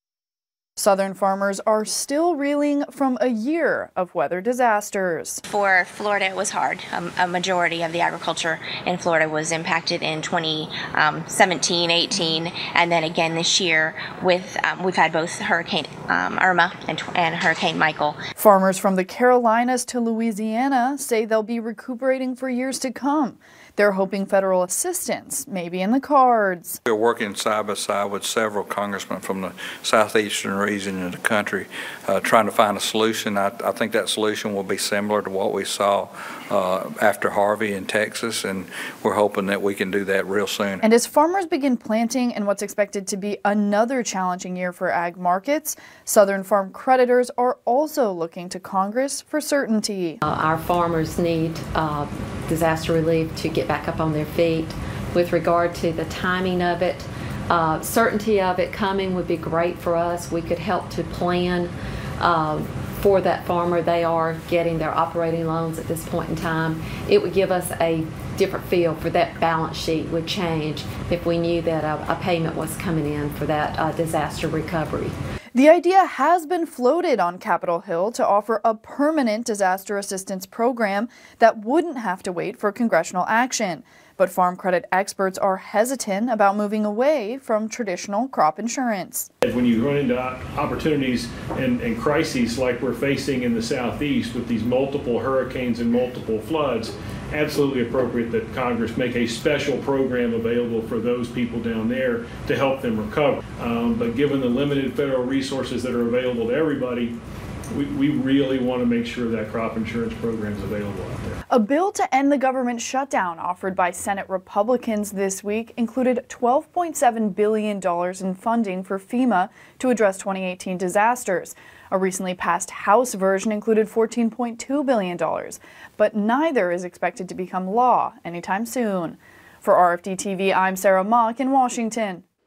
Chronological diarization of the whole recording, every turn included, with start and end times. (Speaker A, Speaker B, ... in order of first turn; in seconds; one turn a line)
Speaker A: 0.8-5.4
Speaker B: 5.5-18.2
Speaker A: 18.4-26.8
Speaker C: 26.9-40.9
Speaker A: 40.8-50.2
Speaker D: 50.2-75.1
Speaker A: 75.5-89.3
Speaker E: 89.4-107.1
Speaker E: 107.7-111.4
Speaker A: 111.5-132.2